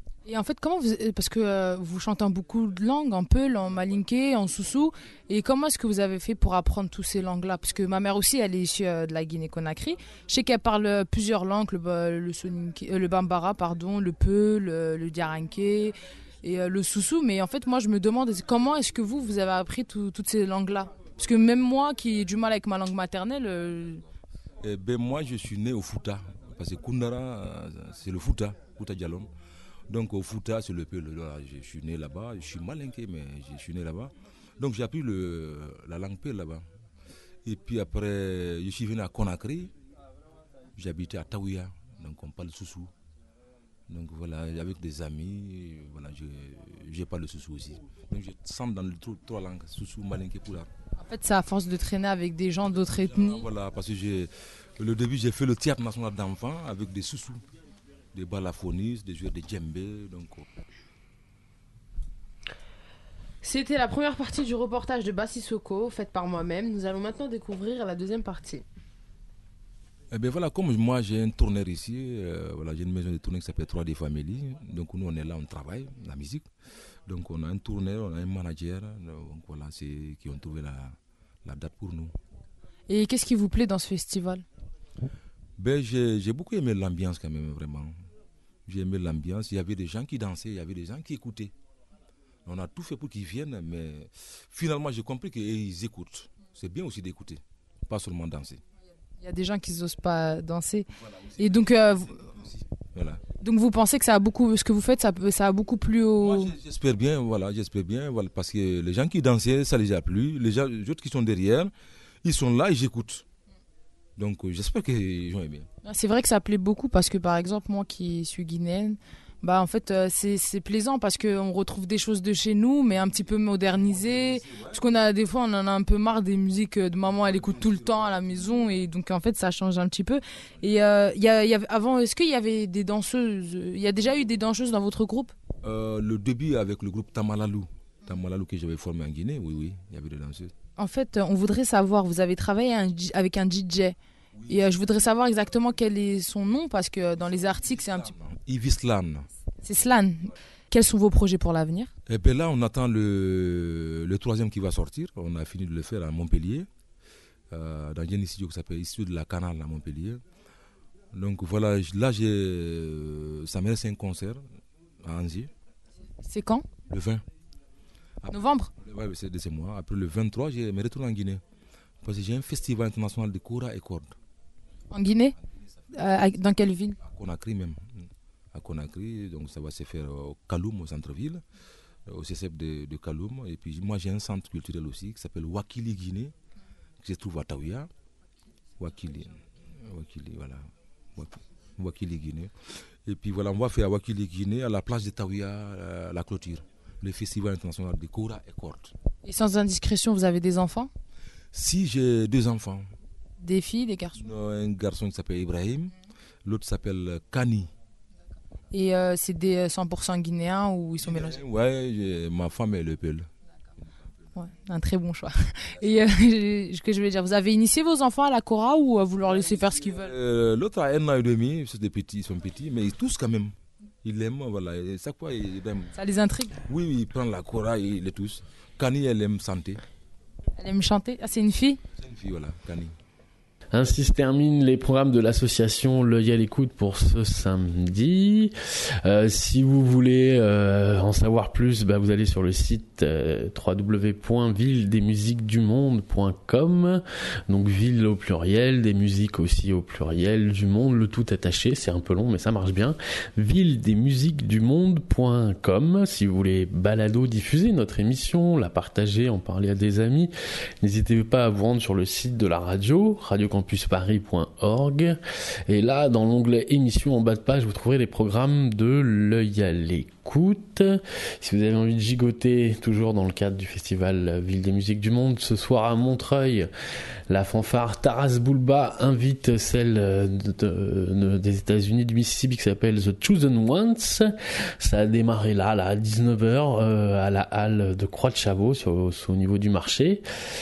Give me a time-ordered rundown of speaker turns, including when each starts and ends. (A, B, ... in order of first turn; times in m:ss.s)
0:00.2-0:24.0 A
0:24.6-0:29.3 B
0:29.9-0:36.6 B
0:37.4-0:39.7 B
0:40.8-0:42.9 B
0:43.9-0:50.7 B
0:51.0-0:53.5 A
0:52.8-0:57.4 B
0:58.1-1:00.5 B
1:03.4-1:08.6 C
1:10.1-1:16.5 B
1:17.1-1:22.1 B
1:22.9-1:24.4 A
1:25.6-1:28.0 B
1:28.7-1:31.5 B
1:32.4-1:38.6 B
1:39.2-1:40.9 A
1:41.2-1:41.8 B
1:41.4-1:42.3 A
1:42.4-1:43.2 B
1:43.4-1:46.5 A
1:46.2-1:51.7 B
1:52.2-1:53.2 B
1:54.2-1:55.7 B
1:55.8-2:15.3 A
2:03.8-2:04.8 B
2:15.6-2:20.5 B
2:20.8-2:24.0 A
2:24.4-2:24.8 B
2:24.5-2:28.2 A
2:27.3-2:29.3 B
2:29.6-2:31.9 A
2:32.1-2:36.7 B
2:37.5-2:40.2 B
2:41.1-2:44.4 B
2:45.0-2:45.5 B
2:46.2-2:46.6 A
2:46.9-2:47.2 B
2:48.2-2:51.4 B
2:48.3-2:48.7 A
2:52.0-2:54.1 B
2:54.9-2:55.3 A
2:55.9-2:57.0 A
2:57.0-3:01.4 B
3:02.1-3:06.3 B
3:07.0-3:07.9 B
3:08.8-3:12.5 B
3:13.0-3:18.9 B
3:19.2-3:20.9 A
3:21.5-3:22.9 B
3:23.4-3:24.2 A
3:24.2-3:25.9 B
3:26.4-3:27.7 B
3:28.7-3:31.4 A
3:31.0-3:33.3 B
3:34.3-3:40.1 A
3:39.4-3:45.9 B
3:45.9-3:46.6 A
3:46.7-3:49.8 B
3:50.6-3:51.8 A
3:52.0-3:52.9 B
3:53.7-3:58.5 D
3:59.0-4:20.3 D
4:20.8-4:36.7 D
4:37.3-4:44.3 D
4:44.8-4:50.2 D